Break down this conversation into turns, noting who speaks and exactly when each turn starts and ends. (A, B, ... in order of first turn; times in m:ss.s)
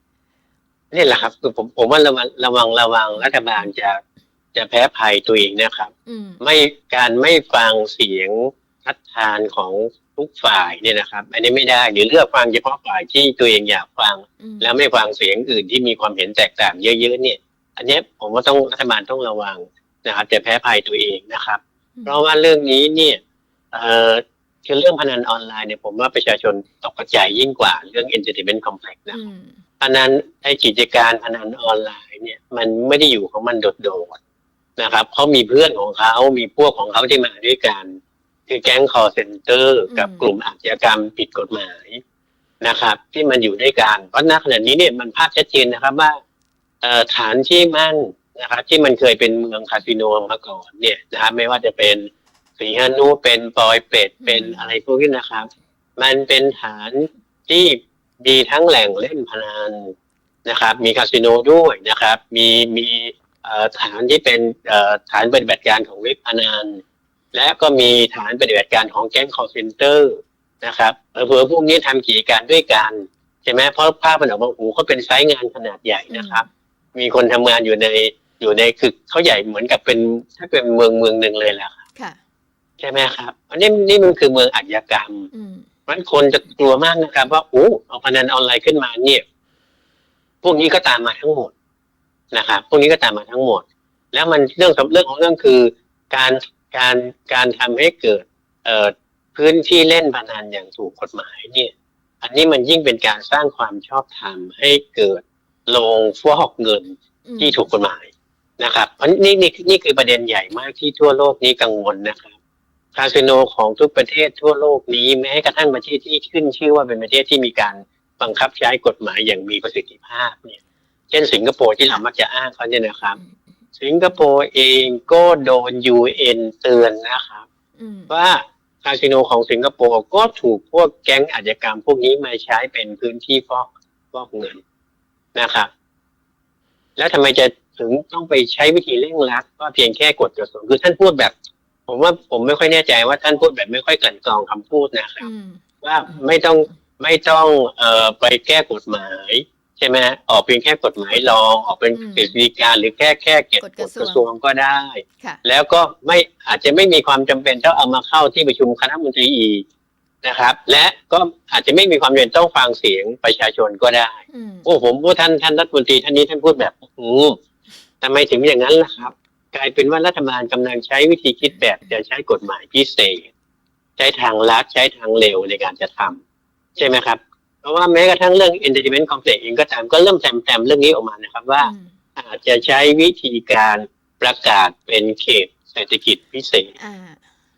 0:00.9-0:04.0 A
0:03.2-0:03.6 B
0:04.5-0:23.2 A
0:06.1-0:06.4 B
0:14.4-0:14.7 B
0:23.7-0:29.2 A
0:29.1-0:29.6 B
0:29.8-0:34.2 A
0:34.8-0:42.0 A
0:39.9-0:40.3 B
0:42.6-0:46.2 A
0:46.8-0:59.9 A
0:54.2-0:54.7 B
1:00.4-1:06.8 A
1:07.3-1:21.7 A
1:16.1-1:16.4 B
1:22.8-1:25.3 A
1:25.3-1:25.6 B
1:25.9-1:29.2 A
1:30.4-1:31.5 A
1:32.3-1:52.3 A
1:47.2-1:47.6 B
1:52.9-2:00.6 A
2:01.1-2:03.2 A
2:03.8-2:07.4 A
2:07.8-2:08.1 B
2:08.1-2:14.6 A
2:15.3-2:15.7 A
2:17.0-2:21.3 A
2:21.9-2:25.3 A
2:25.2-2:25.6 B
2:25.8-2:39.6 A
2:31.9-2:32.3 B
2:33.6-2:34.2 B
2:40.2-2:47.4 A
2:44.3-2:44.7 B
2:48.0-2:53.3 A
2:54.0-2:56.2 A
2:56.8-3:06.7 A
3:01.6-3:01.9 B
3:06.8-3:07.2 B